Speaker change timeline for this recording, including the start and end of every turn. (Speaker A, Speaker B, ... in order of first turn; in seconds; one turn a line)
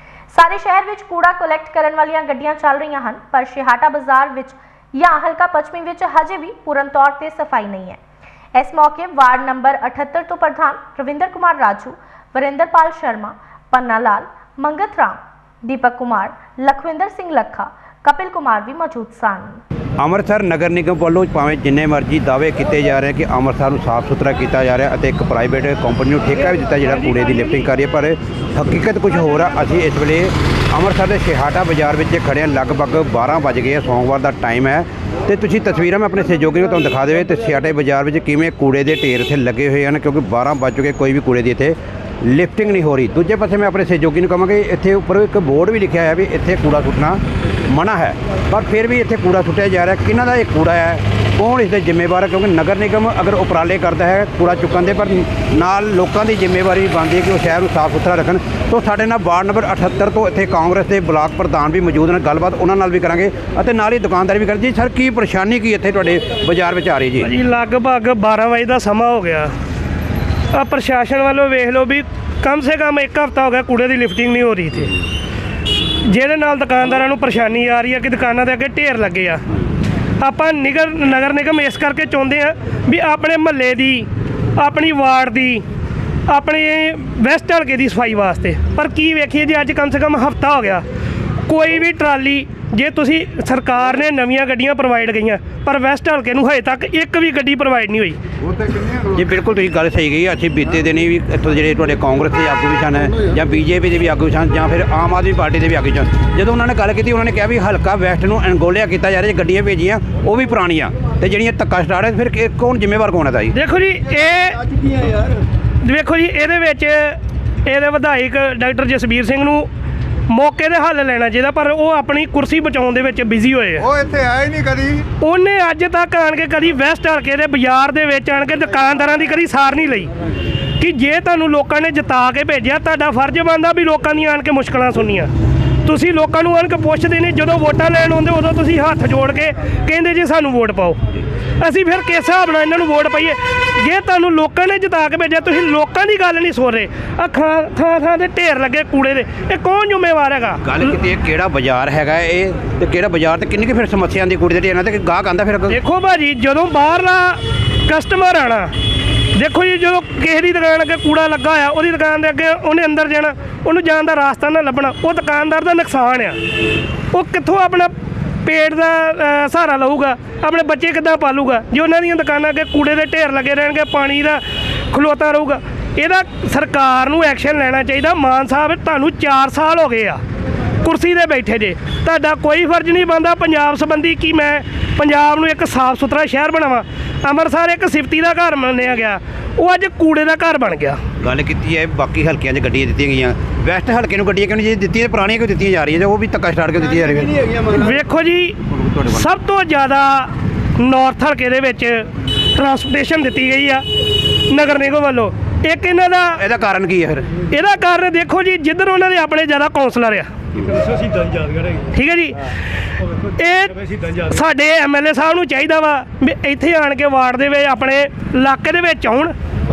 Speaker A: 0.3-8.0
Speaker A: 8.6-19.6
Speaker B: 20.0-67.3
Speaker C: 67.2-69.5
Speaker C: 70.5-75.0
Speaker C: 76.0-79.4
Speaker C: 80.2-85.7
Speaker C: 86.3-90.8
Speaker C: 91.5-98.2
Speaker B: 98.8-113.6
Speaker C: 113.5-114.6
Speaker D: 114.5-115.4
Speaker C: 115.8-119.7
Speaker C: 120.3-123.9
Speaker D: 124.2-125.0
Speaker C: 125.2-130.1
Speaker C: 130.8-135.3
Speaker C: 135.8-141.0
Speaker C: 141.6-150.6
Speaker B: 150.6-155.8
Speaker C: 155.7-158.7
Speaker C: 159.3-166.4
Speaker C: 167.1-167.9
Speaker C: 168.4-180.2
Speaker C: 180.8-191.0
Speaker B: 191.2-197.3
Speaker D: 196.8-198.0
Speaker C: 197.7-198.6
Speaker B: 198.7-199.3
Speaker C: 199.1-203.8
Speaker C: 204.5-206.4
Speaker B: 206.4-207.3
Speaker C: 207.5-210.3
Speaker C: 210.9-212.5
Speaker C: 213.4-219.3